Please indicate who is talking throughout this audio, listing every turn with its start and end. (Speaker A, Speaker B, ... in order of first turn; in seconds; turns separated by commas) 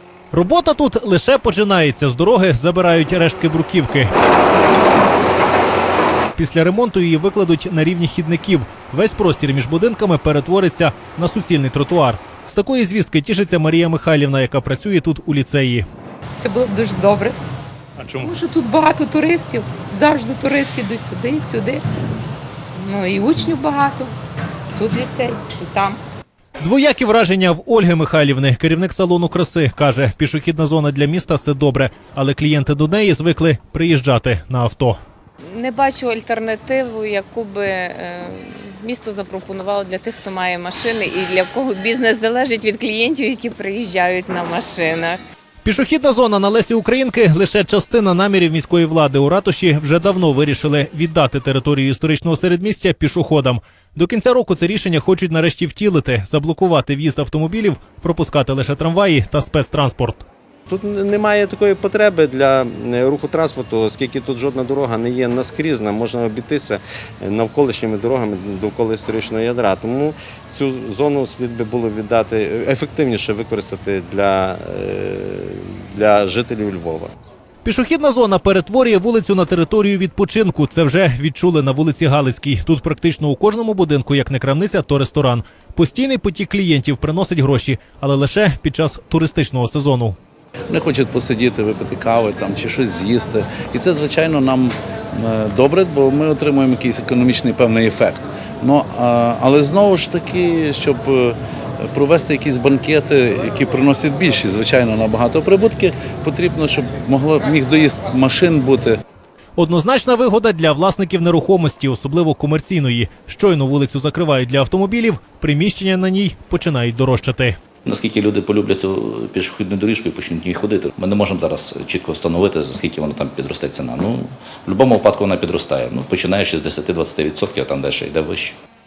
Speaker A: 0.3-4.1, Speaker A: 6.4-15.8, Speaker B: 16.4-17.4, Speaker A: 18.0-18.4, Speaker B: 18.2-21.8, Speaker B: 22.8-24.1, Speaker B: 24.8-26.0, Speaker A: 26.6-35.0, Speaker C: 35.5-45.2, Speaker A: 45.6-60.2, Speaker D: 60.7-77.1, Speaker A: 77.6-90.2, Speaker E: 90.7-109.0, Speaker A: 109.6-117.6, Speaker F: 117.9-128.5